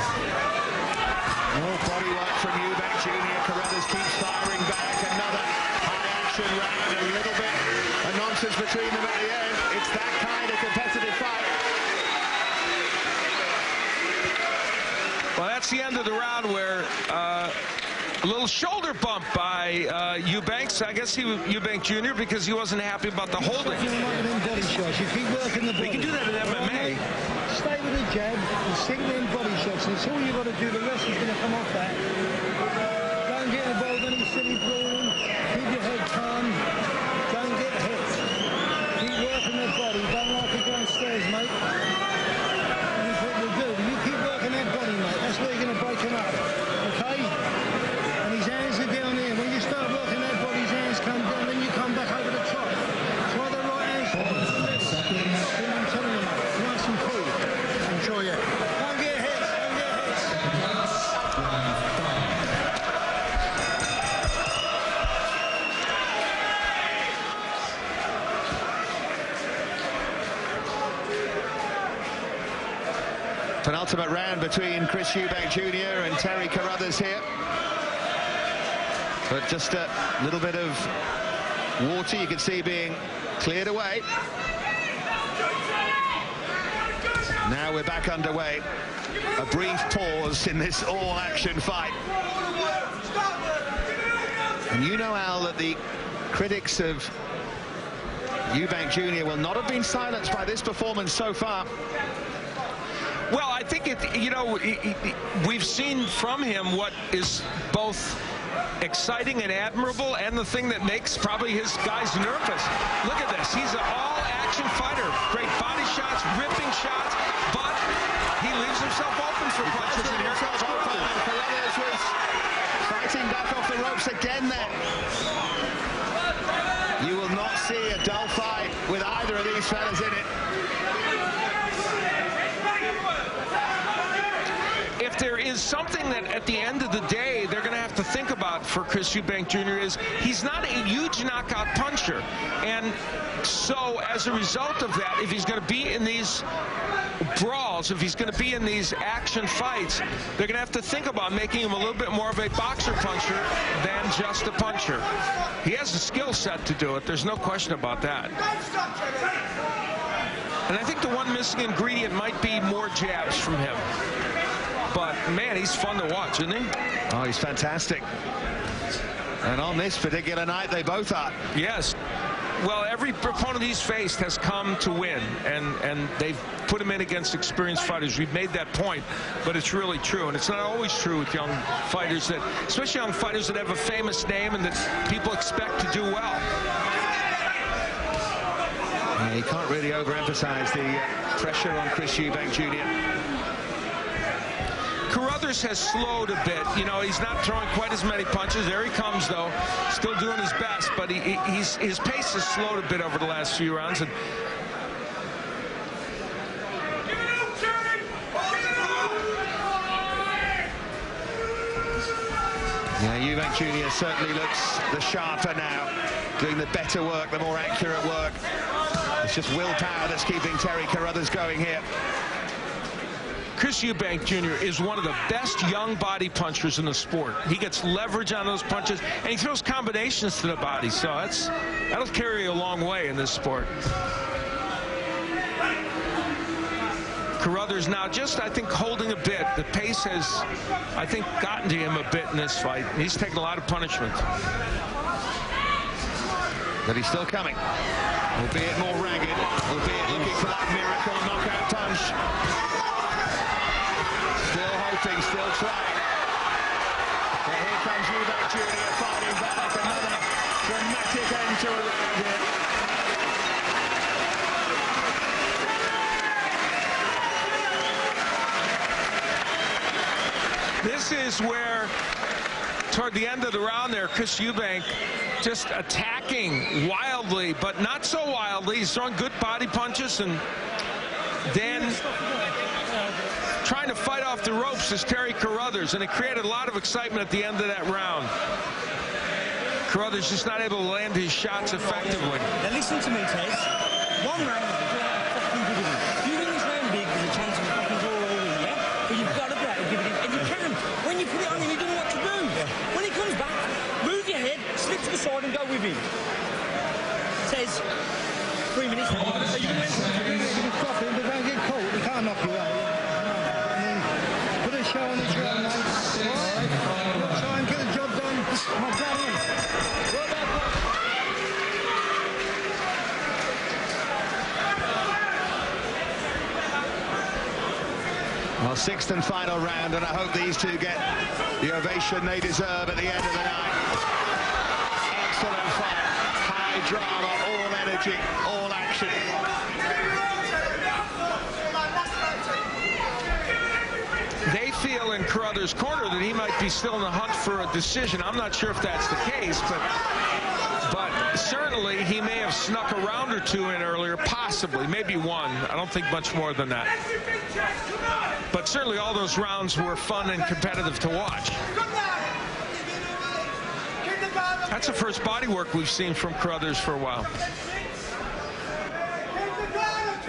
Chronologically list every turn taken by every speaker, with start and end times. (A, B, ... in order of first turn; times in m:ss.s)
0:01.5-0:11.6 A
0:15.4-0:17.6 B
0:18.2-0:23.8 B
0:23.4-0:32.0 C
0:25.8-0:27.0 B
0:33.2-0:36.6 C
0:37.3-0:38.2 C
0:39.0-0:41.6 C
0:43.0-0:47.5 C
0:48.2-1:00.6 C
1:01.5-1:02.0 B
1:13.6-1:17.2 A
1:19.3-1:20.9 A
1:21.8-1:24.1 A
1:27.4-1:28.6 A
1:29.4-1:32.0 A
1:34.7-1:37.1 A
1:38.5-1:41.7 A
1:43.3-1:48.2 B
1:48.8-1:57.8 B
1:58.4-2:01.1 B
1:59.6-2:02.2 A
2:02.8-2:04.8 A
2:07.0-2:10.3 A
2:15.0-2:26.5 B
2:27.2-2:35.0 B
2:35.6-2:38.4 B
2:40.7-2:43.9 B
2:44.9-2:46.7 B
2:47.1-2:48.0 A
2:49.4-2:51.4 A
2:51.5-2:52.0 B
2:52.6-3:06.4 B
3:09.2-3:12.9 A
3:15.1-3:24.1 B
3:33.0-3:38.4 A
3:39.2-3:41.8 A
3:43.6-3:53.7 B
3:57.4-4:04.2 B
4:06.8-4:07.6 A
4:08.3-4:12.2 A
4:14.4-4:16.0 A
4:17.4-4:22.5 A
4:30.8-4:31.9 B
4:32.9-4:40.4 B
4:41.4-4:42.0 B
4:43.6-4:48.3 B
4:49.9-4:52.5 B
4:52.6-4:53.7 D
4:54.2-5:06.0 D
5:07.4-5:07.8 D
5:08.7-5:10.5 D
5:09.6-5:14.1 C
5:14.6-5:19.4 C
5:28.6-5:31.1 A
5:31.6-5:33.8 A
5:35.1-5:39.2 A
5:44.4-5:49.8 B
5:50.8-5:56.9 B
5:58.5-6:01.6 B
6:04.7-6:07.3 B